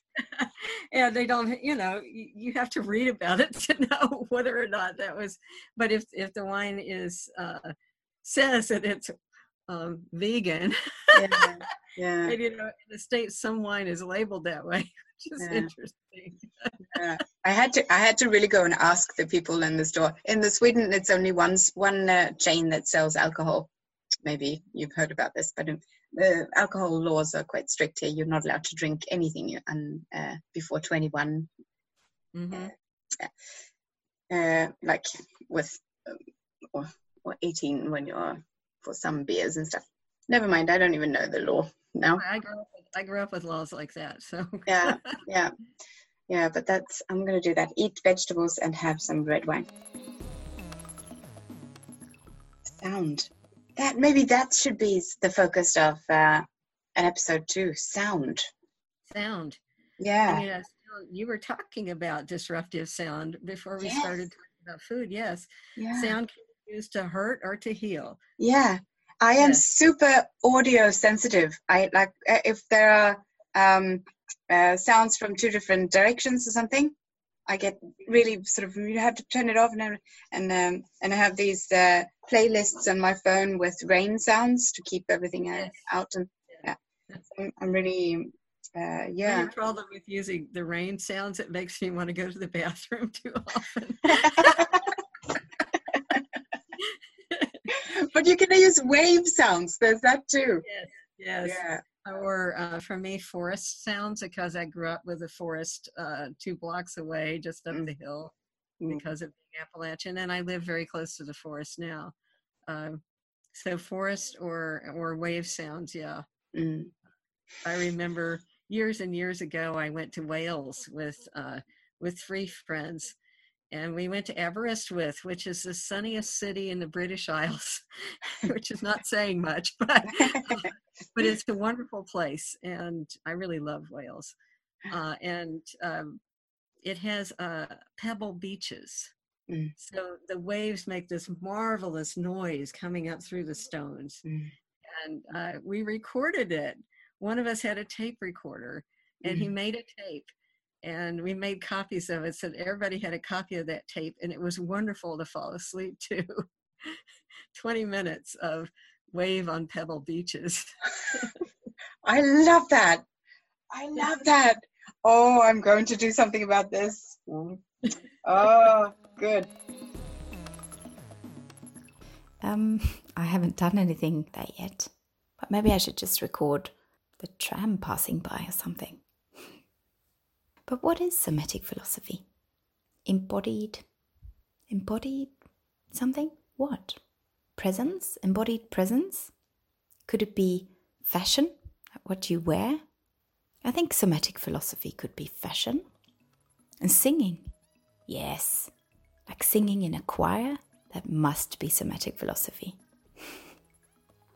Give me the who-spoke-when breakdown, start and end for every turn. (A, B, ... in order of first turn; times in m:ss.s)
0:00.2-0:09.1 A
0:09.7-0:11.5 A
0:11.1-0:12.4 B
0:12.2-0:17.0 A
0:15.4-0:15.7 B
0:16.9-0:23.7 B
0:24.2-0:31.5 B
0:32.3-0:32.7 A
0:34.3-0:36.2 B
0:36.7-0:42.2 B
0:42.2-0:45.2 A
0:44.7-0:45.5 B
0:46.3-0:49.7 B
0:52.8-0:58.5 B
0:59.1-0:59.6 A
1:00.0-1:00.4 B
1:00.2-1:08.2 A
1:03.8-1:04.1 B
1:05.8-1:06.1 B
1:08.4-1:16.9 B
1:09.4-1:09.6 A
1:17.5-1:26.8 B
1:25.5-1:25.9 A
1:27.3-1:29.5 B
1:29.2-1:34.9 A
1:34.2-1:34.8 B
1:36.8-1:37.6 A
1:37.7-1:40.6 B
1:40.6-1:48.3 A
1:41.4-1:41.8 B
1:48.9-1:52.1 A
1:52.7-1:53.0 A
1:53.5-1:56.2 A
1:56.5-1:56.9 B
1:57.6-2:03.2 A
2:03.7-2:14.3 A
2:10.1-2:10.7 B
2:14.9-2:16.2 A
2:16.8-2:19.1 A
2:19.5-2:19.7 B
2:19.8-2:24.2 A
2:24.2-2:24.5 B
2:24.8-2:30.3 A
2:30.8-2:37.0 A
2:37.5-2:41.3 A
2:42.0-2:43.0 B
2:43.7-2:47.6 B
2:48.2-2:49.5 B
2:52.4-2:59.5 C
3:00.7-3:02.3 C
3:03.0-3:03.9 C
3:04.7-3:07.0 C
3:07.5-3:09.3 C
3:10.1-3:12.9 C
3:13.6-3:15.9 C
3:16.8-3:17.5 C
3:18.1-3:18.7 C
3:19.3-3:23.4 C